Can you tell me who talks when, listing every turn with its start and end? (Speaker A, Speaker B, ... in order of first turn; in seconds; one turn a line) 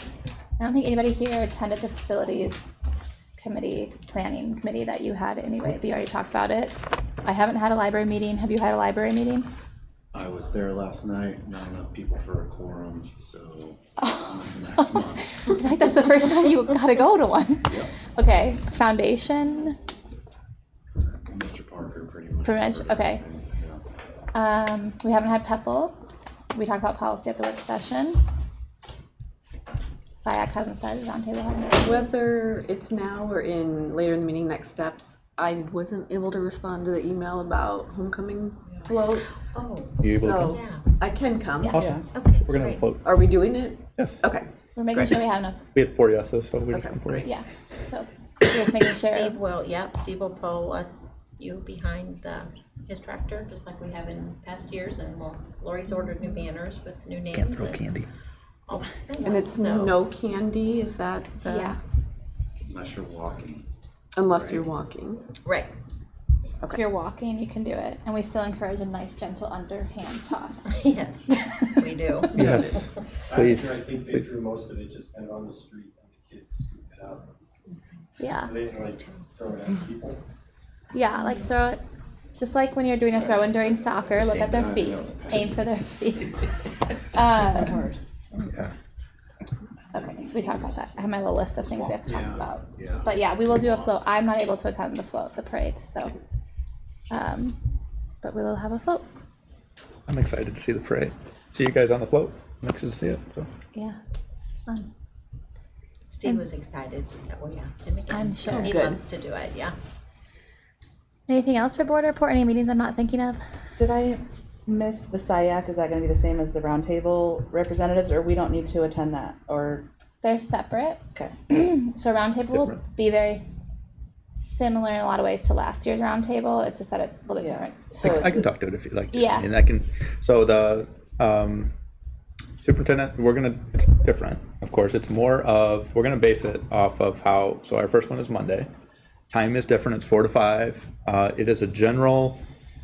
Speaker A: 0.6-2.6
Speaker A: 3.4-9.5
Speaker B: 10.1-15.3
Speaker A: 14.0-19.8
Speaker B: 21.1-23.8
Speaker A: 22.4-23.2
Speaker A: 24.3-26.0
Speaker A: 26.5-28.2
Speaker A: 30.2-32.1
Speaker C: 31.8-39.2
Speaker D: 39.5-40.9
Speaker E: 40.0-40.5
Speaker C: 40.1-41.8
Speaker F: 41.7-42.1
Speaker E: 41.7-43.2
Speaker D: 42.1-42.9
Speaker C: 43.0-45.1
Speaker E: 44.0-44.2
Speaker A: 44.8-45.6
Speaker E: 45.7-47.3
Speaker C: 46.7-47.1
Speaker A: 47.2-49.4
Speaker D: 48.9-57.8
Speaker E: 57.3-58.1
Speaker D: 58.7-60.0
Speaker C: 59.2-61.8
Speaker A: 61.4-61.8
Speaker B: 62.6-63.6
Speaker C: 64.1-65.2
Speaker B: 64.3-64.6
Speaker D: 65.4-65.7
Speaker A: 66.7-71.8
Speaker D: 70.7-72.5
Speaker E: 72.3-74.3
Speaker G: 73.3-77.3
Speaker A: 78.2-78.6
Speaker G: 78.4-80.2
Speaker A: 80.9-81.8
Speaker A: 82.4-87.8
Speaker B: 84.2-85.7
Speaker F: 87.4-88.2
Speaker E: 88.3-88.7
Speaker A: 89.9-96.1
Speaker B: 91.7-94.0
Speaker A: 97.1-97.6
Speaker A: 98.2-99.0
Speaker E: 100.1-103.5
Speaker D: 106.1-109.7
Speaker A: 108.1-108.8
Speaker F: 108.5-109.0
Speaker A: 111.3-113.4
Speaker F: 113.8-119.8
Speaker A: 120.2-123.5
Speaker E: 122.5-122.8
Speaker A: 124.5-128.4
Speaker F: 127.4-128.5
Speaker E: 128.0-131.7
Speaker A: 129.1-129.5
Speaker E: 132.6-138.7
Speaker E: 139.3-142.3